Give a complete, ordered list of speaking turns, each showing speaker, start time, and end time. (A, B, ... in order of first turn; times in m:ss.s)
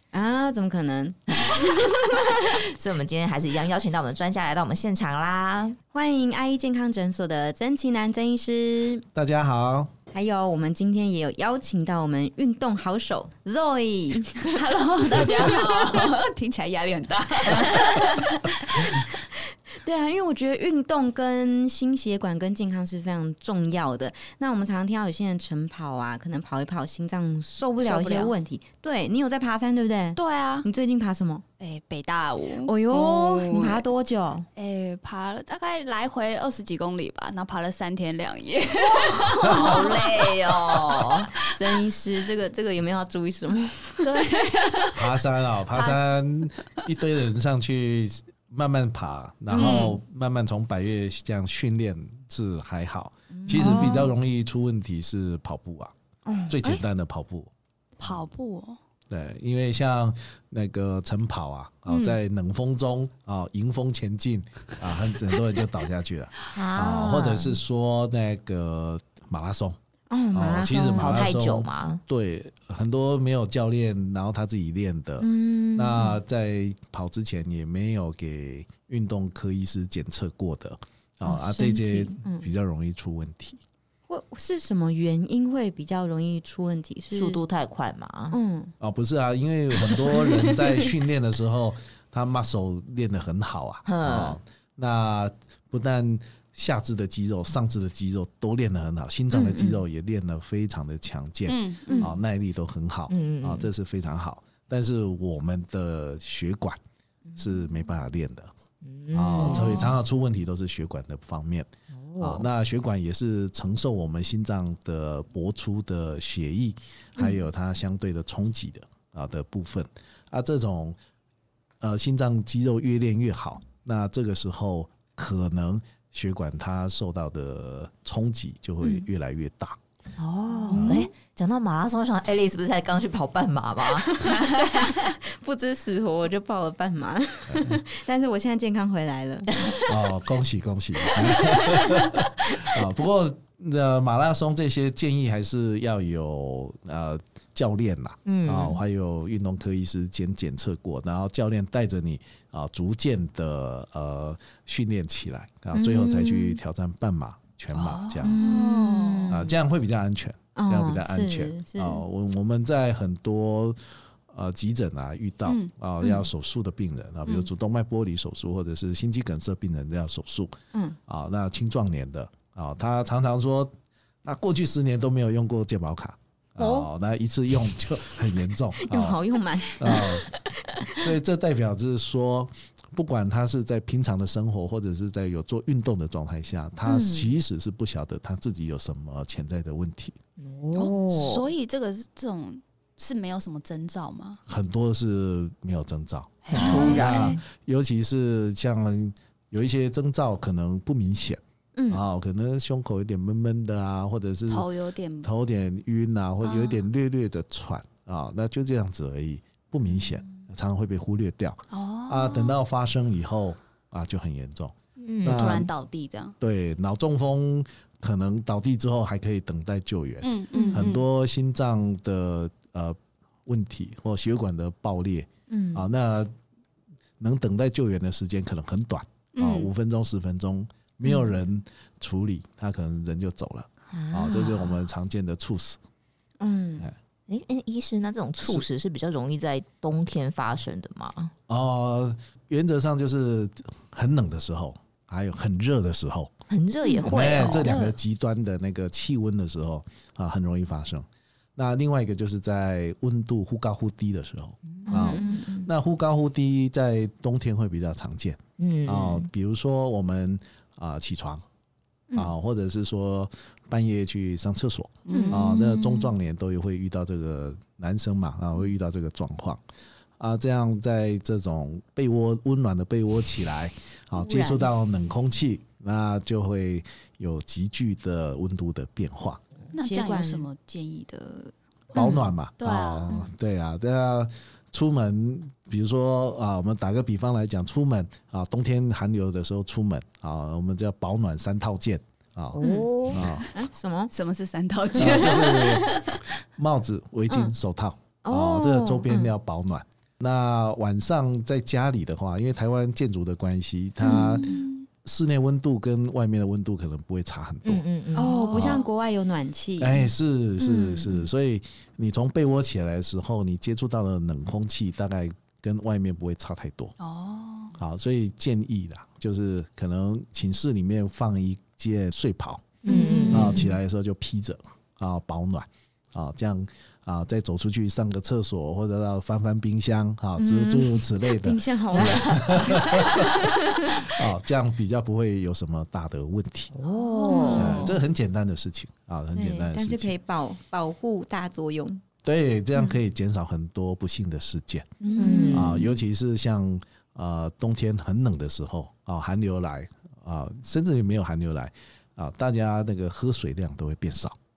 0:00.1-0:02.5 A
0:02.5-0:05.8 B
0:05.9-0:09.0 A
0:09.1-0:09.9 C
0:10.1-0:14.6 A
0:14.4-0:18.9 D
0:17.5-0:18.4 A
0:19.8-0:31.4 A
0:27.8-0:28.3 D
0:30.2-0:30.7 D
0:31.6-0:33.8 D
0:32.7-0:34.5 A
0:33.4-0:33.8 B
0:34.6-0:41.3 D
0:39.2-0:41.3 B
0:41.4-0:44.8 A
0:44.0-0:45.1 D
0:44.9-0:55.9 C
0:49.5-0:50.0 D
0:49.6-0:49.8 A
0:53.3-0:54.1 A
0:53.5-0:54.0 D
0:56.3-0:56.6 A
0:56.5-0:57.5 C
0:58.0-0:58.8 D
0:59.1-1:09.8 C
1:01.9-1:02.2 A
1:06.5-1:07.5 B
1:10.1-1:11.3 A
1:10.3-1:23.6 C
1:11.0-1:12.0 B
1:15.2-1:16.2 A
1:21.2-1:22.5 A
1:24.1-1:27.4 A
1:27.1-1:28.4 B
1:28.3-1:28.7 A
1:28.8-1:46.8 C
1:30.1-1:30.5 A
1:33.8-1:34.4 B
1:39.3-1:39.8 A
1:41.5-1:42.1 D
1:41.9-1:42.1 A
1:43.1-1:43.7 B
1:47.4-1:48.5 C
1:48.8-1:49.8 B
1:49.1-2:01.0 C
1:49.5-1:49.8 A
1:51.9-1:52.5 B
2:01.8-2:09.8 C
2:10.2-2:14.3 B
2:10.7-2:11.0 A
2:10.7-2:11.1 C
2:14.0-2:19.9 A
2:17.5-2:17.8 C
2:19.9-2:38.6 C
2:21.1-2:22.1 A
2:28.2-2:28.8 B
2:35.7-2:36.6 A
2:37.7-2:39.3 D
2:38.2-2:39.5 A
2:39.3-2:50.6 C
2:40.6-2:42.0 A
2:45.5-2:45.7 D
2:50.7-2:51.0 A
2:51.1-2:53.7 C
2:54.2-2:59.2 C
2:56.6-2:56.9 A
2:58.8-3:01.1 A
2:59.8-3:00.3 C
3:00.9-3:10.2 C
3:06.9-3:07.3 A
3:10.4-3:11.5 B
3:10.8-3:14.4 D
3:14.5-3:24.7 C
3:16.4-3:17.4 D
3:16.5-3:17.4 B
3:16.6-3:17.3 A
3:21.8-3:22.0 A
3:24.5-3:25.3 D
3:25.2-3:35.7 C
3:26.4-3:26.8 D
3:31.7-3:32.6 D
3:35.0-3:35.6 B
3:35.2-3:36.4 D
3:36.4-3:46.3 C
3:40.2-3:41.0 D
3:40.5-3:40.9 A
3:45.5-3:45.9 A
3:47.2-3:55.8 C
3:49.4-3:49.7 D
3:51.0-3:51.4 A
3:53.9-3:54.8 B
3:56.4-3:56.9 A
3:57.3-4:01.3 B
4:01.5-4:06.4 C
4:06.5-4:07.7 B
4:06.9-4:08.0 D
4:07.0-4:21.4 C
4:14.8-4:15.4 B
4:14.9-4:15.7 A
4:18.6-4:19.3 B
4:22.1-4:29.6 C
4:25.1-4:26.0 D
4:25.1-4:25.5 A
4:30.2-4:39.4 C
4:34.2-4:34.7 A
4:39.7-4:41.5 D
4:39.8-4:40.5 A
4:41.9-4:52.6 C
4:41.9-4:42.3 A
4:42.6-4:43.2 D
4:52.5-4:53.3 B
4:52.6-4:52.9 D
4:52.6-4:52.9 A
4:53.1-4:53.5 C
4:53.5-4:54.1 A
4:54.1-4:56.3 D
4:54.9-5:07.8 C
4:57.3-4:57.5 A
4:58.2-4:59.1 A
5:04.1-5:04.4 A
5:04.1-5:04.9 D
5:07.6-5:08.4 B
5:08.1-5:08.9 D
5:08.2-5:10.1 A
5:08.5-5:08.8 C
5:09.8-5:16.9 C
5:10.6-5:11.2 D
5:17.0-5:17.8 D
5:17.8-5:22.8 C
5:22.8-5:23.7 B
5:22.9-5:23.7 A
5:22.9-5:23.7 D
5:23.3-5:36.8 C
5:30.4-5:34.2 A
5:31.9-5:32.8 B
5:36.7-5:37.8 B
5:37.0-5:38.0 D
5:37.2-5:37.9 A
5:37.6-5:40.1 C
5:39.3-5:42.0 A
5:42.2-5:45.0 C
5:45.0-5:45.7 D
5:45.2-5:45.9 A
5:45.2-5:45.8 B
5:45.5-5:54.4 C